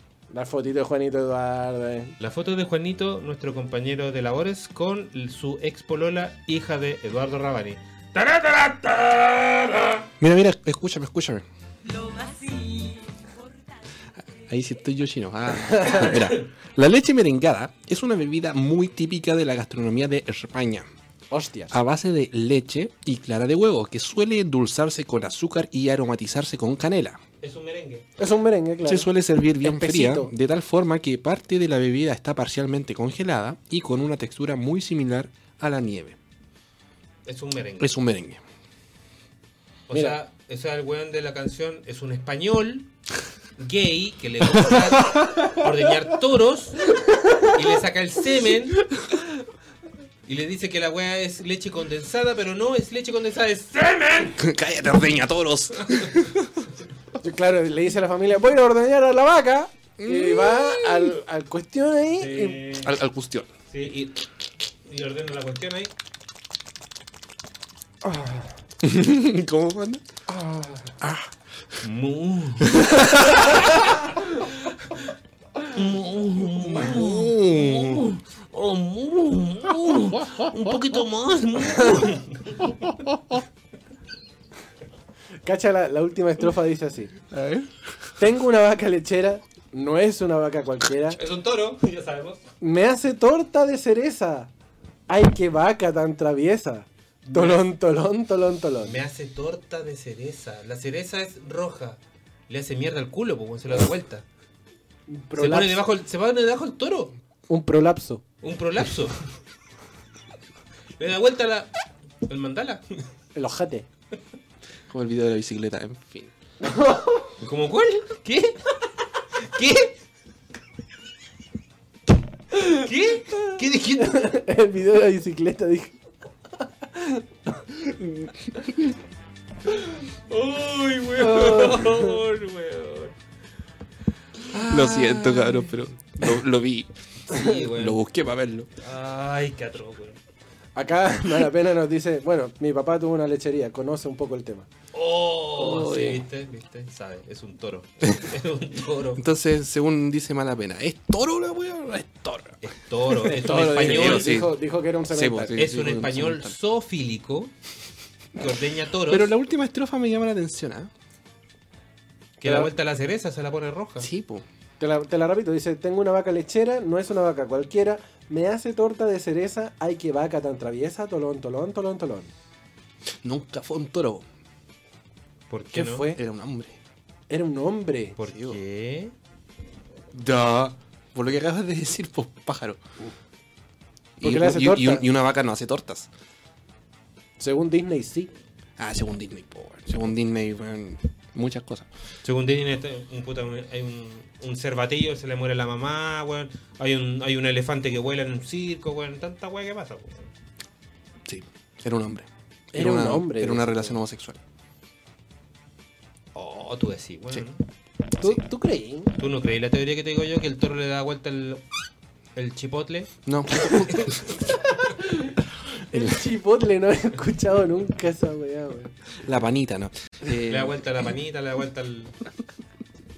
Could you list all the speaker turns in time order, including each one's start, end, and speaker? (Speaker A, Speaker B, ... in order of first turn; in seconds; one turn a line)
Speaker A: 0.3-2.1
Speaker B: 2.2-10.1
Speaker C: 10.2-11.4
Speaker B: 11.9-13.2
Speaker C: 14.3-20.9
Speaker A: 15.7-16.1
Speaker B: 16.1-16.5
Speaker A: 21.3-21.7
Speaker C: 21.7-27.2
Speaker B: 27.4-28.1
Speaker A: 28.2-29.1
Speaker C: 28.9-36.2
Speaker A: 29.6-30.3
Speaker B: 37.3-38.0
Speaker C: 37.8-38.4
Speaker B: 39.9-42.9
Speaker A: 39.9-40.2
Speaker B: 43.6-46.9
Speaker C: 44.7-45.6
Speaker B: 47.4-48.8
Speaker B: 50.3-54.4
Speaker C: 54.4-56.7
Speaker B: 55.9-56.2
Speaker A: 57.2-62.6
Speaker C: 60.0-61.1
Speaker B: 62.2-63.0
Speaker C: 62.8-63.5
Speaker B: 63.7-64.2
Speaker B: 64.8-65.9
Speaker A: 68.0-68.5
Speaker C: 68.8-70.0
Speaker A: 70.3-70.9
Speaker C: 71.0-71.3
Speaker B: 71.8-74.1
Speaker C: 72.7-73.7
Speaker B: 75.7-82.9
Speaker C: 76.5-78.1
Speaker C: 79.9-80.8
Speaker C: 82.7-83.4
Speaker A: 85.4-87.2
Speaker C: 87.3-87.7
Speaker A: 88.2-91.2
Speaker B: 91.1-92.4
Speaker A: 92.6-94.5
Speaker A: 95.1-99.0
Speaker B: 97.2-97.7
Speaker B: 98.8-104.2
Speaker A: 105.1-105.8
Speaker B: 105.4-107.2
Speaker A: 107.5-108.2
Speaker B: 108.4-109.2
Speaker B: 111.0-111.7
Speaker B: 112.3-113.0
Speaker A: 113.3-113.9
Speaker C: 114.9-116.3
Speaker A: 116.6-117.3
Speaker B: 117.4-118.6
Speaker B: 119.4-119.9
Speaker B: 122.6-124.3
Speaker A: 124.0-126.0
Speaker A: 126.9-128.3
Speaker B: 129.7-133.2
Speaker A: 131.2-132.2
Speaker B: 134.4-135.7
Speaker C: 134.6-136.9
Speaker B: 137.3-138.0
Speaker C: 137.5-138.7
Speaker B: 138.8-140.2
Speaker A: 140.8-144.7
Speaker B: 144.9-149.2
Speaker C: 145.6-146.2
Speaker C: 149.2-152.6
Speaker B: 152.6-154.3
Speaker A: 153.2-155.6
Speaker C: 153.7-154.6
Speaker C: 155.1-156.6
Speaker B: 155.6-157.5
Speaker B: 158.3-159.3
Speaker C: 159.1-160.9
Speaker B: 162.4-164.1
Speaker A: 162.4-162.7
Speaker C: 164.0-164.5
Speaker A: 164.8-172.3
Speaker C: 173.2-174.2
Speaker B: 175.5-176.1
Speaker A: 175.7-176.2
Speaker C: 176.2-176.8
Speaker A: 177.3-178.2
Speaker B: 178.2-179.1
Speaker C: 178.3-178.6
Speaker C: 180.1-182.8
Speaker C: 184.2-186.1
Speaker A: 184.2-185.0
Speaker A: 187.4-188.3
Speaker C: 188.8-191.9
Speaker B: 192.2-200.3
Speaker C: 201.2-204.4
Speaker A: 202.7-203.9
Speaker B: 206.3-207.6
Speaker A: 208.2-209.1
Speaker B: 209.2-211.6
Speaker B: 212.3-214.6
Speaker C: 213.3-214.4
Speaker A: 214.4-218.9
Speaker C: 219.2-220.9
Speaker B: 220.3-222.2